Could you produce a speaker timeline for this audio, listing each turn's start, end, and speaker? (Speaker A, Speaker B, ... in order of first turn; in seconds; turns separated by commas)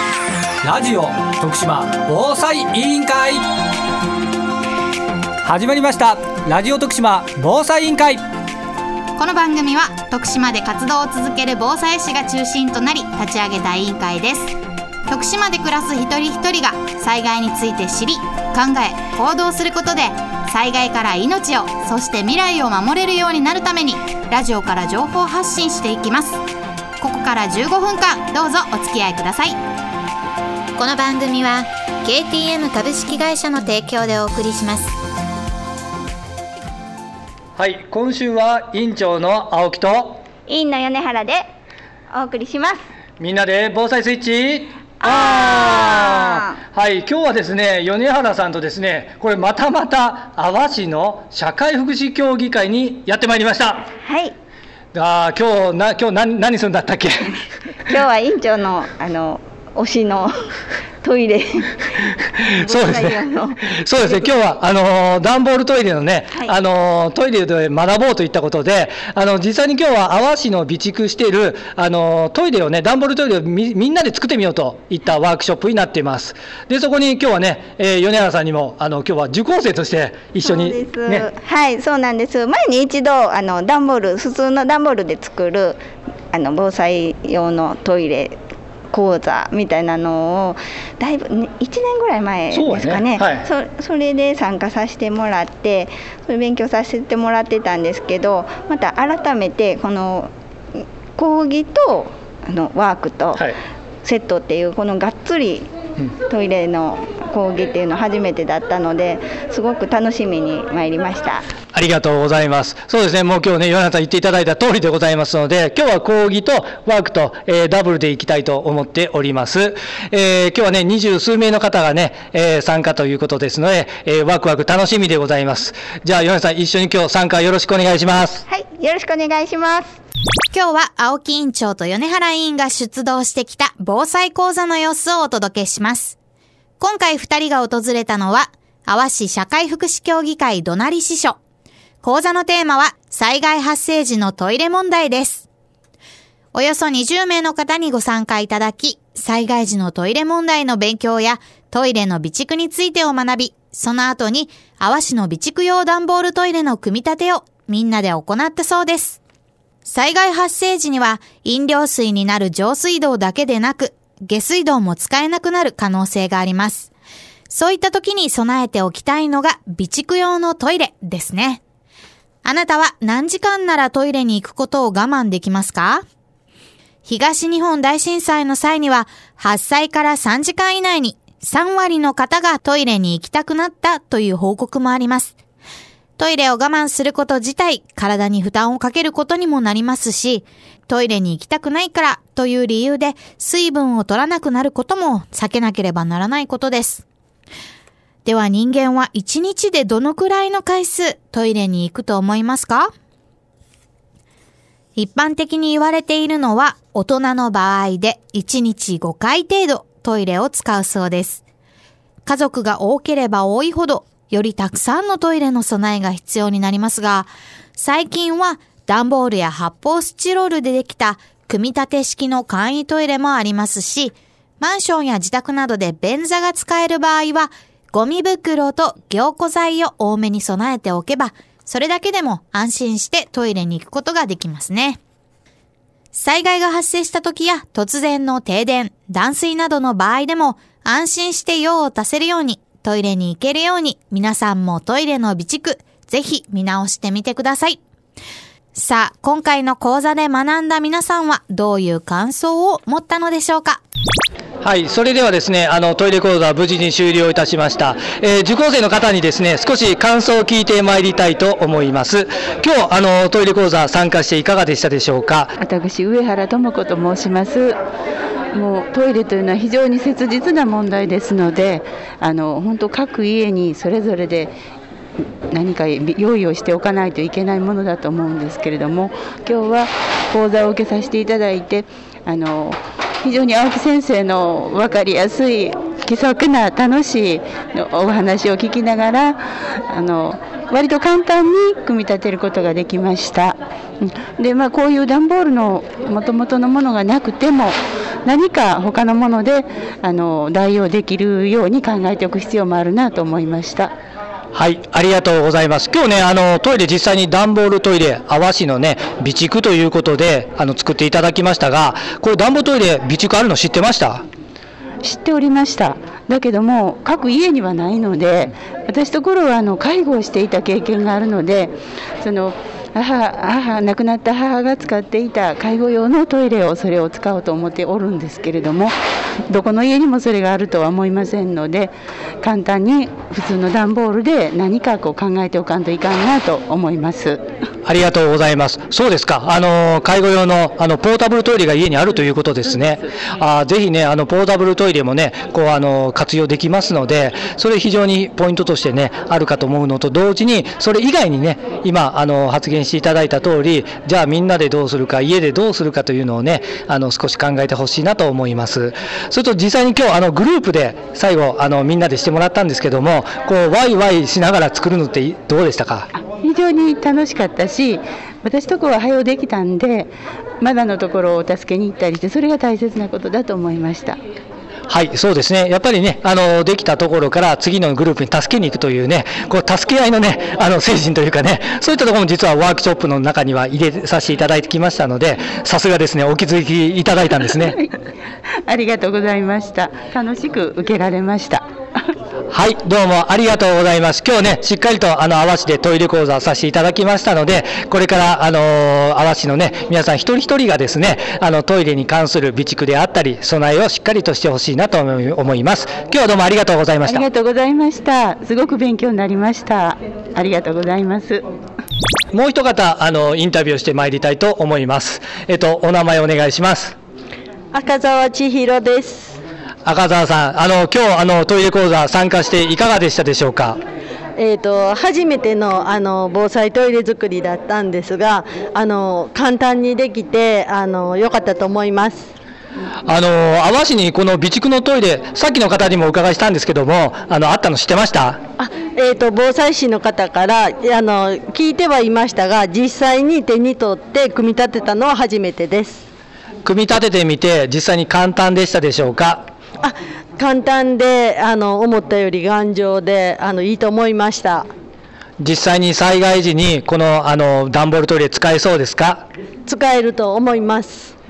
Speaker A: 0.6-3.4, Speaker A: 5.4-8.2, Speaker B: 9.2-14.5, Speaker B: 15.1-26.2, Speaker B: 27.0-29.5, Speaker B: 30.8-34.9, Speaker A: 37.6-40.2, Speaker C: 40.5-41.4, Speaker C: 42.1-42.9, Speaker A: 43.2-53.9, Speaker C: 45.0-46.4, Speaker C: 54.0-54.3, Speaker A: 54.9-57.3, Speaker C: 57.9-60.3, Speaker C: 61.0-63.7, Speaker A: 62.6-63.2, Speaker A: 63.7-81.3, Speaker C: 80.4-85.8, Speaker C: 86.3-88.3, Speaker C: 88.9-103.5, Speaker A: 92.5-93.5, Speaker C: 104.0-105.7, Speaker C: 106.3-111.5, Speaker A: 111.7-128.4, Speaker C: 128.5-129.9, Speaker B: 130.5-136.2, Speaker B: 136.8-141.4, Speaker B: 142.0-145.4, Speaker B: 146.5-159.2, Speaker B: 159.8-166.9, Speaker B: 167.5-171.6, Speaker B: 172.4-176.0, Speaker B: 177.1-185.3, Speaker B: 186.2-197.0, Speaker B: 198.2-202.9, Speaker B: 204.9-211.4, Speaker B: 212.2-235.0, Speaker B: 236.1-247.8, Speaker B: 248.7-253.8, Speaker A: 254.6-265.5, Speaker D: 265.6-267.8, Speaker D: 268.5-274.5, Speaker D: 275.5-303.9, Speaker A: 304.5-314.2, Speaker D: 315.0-328.9, Speaker D: 329.5-337.4, Speaker A: 337.9-366.1, Speaker D: 366.1-374.2, Speaker A: 374.9-387.8, Speaker D: 388.7-391.6, Speaker A: 392.5-407.2, Speaker D: 407.0-411.4, Speaker A: 412.3-416.9, Speaker E: 417.7-419.4, Speaker A: 419.8-423.8, Speaker E: 424.4-432.3, Speaker A: 433.1-438.4, Speaker E: 438.6-446.0, Speaker A: 446.6-449.4, Speaker E: 449.8-454.7, Speaker A: 455.4-459.2, Speaker E: 459.7-461.1